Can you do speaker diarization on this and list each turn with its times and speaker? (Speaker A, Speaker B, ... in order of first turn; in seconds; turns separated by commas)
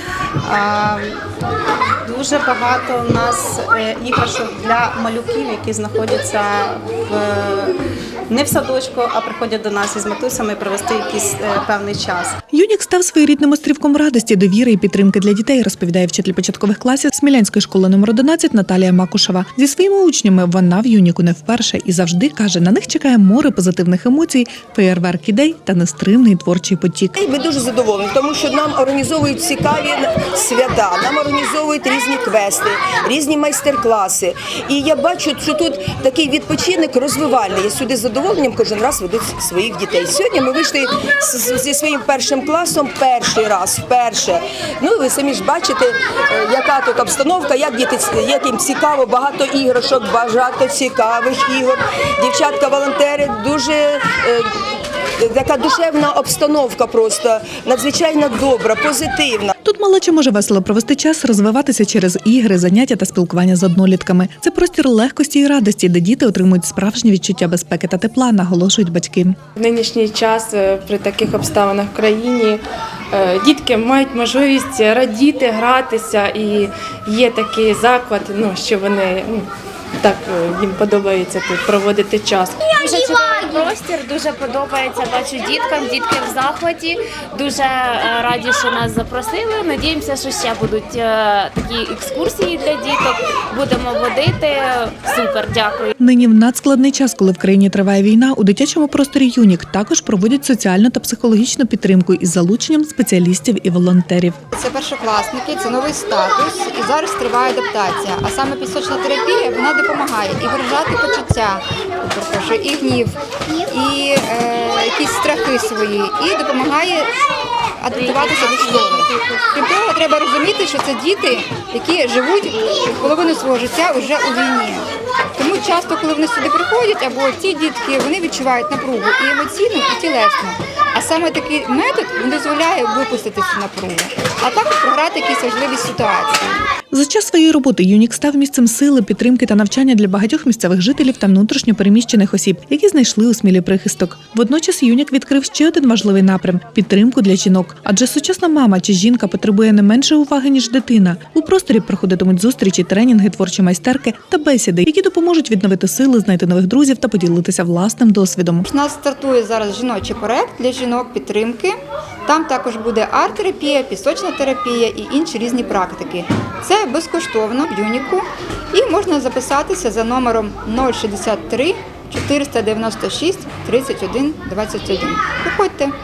Speaker A: 0.4-1.2, Speaker A: 2.0-7.8, Speaker A: 8.3-12.3, Speaker B: 12.5-27.2, Speaker C: 27.2-54.5, Speaker C: 55.2-59.5, Speaker B: 59.6-69.4, Speaker D: 69.5-79.5, Speaker D: 80.0-82.7, Speaker E: 82.8-95.9, Speaker B: 96.0-104.4, Speaker F: 104.5-113.2, Speaker F: 113.7-117.1, Speaker F: 117.8-136.6, Speaker E: 118.0-119.4, Speaker B: 136.9-158.6, Speaker F: 158.6-175.9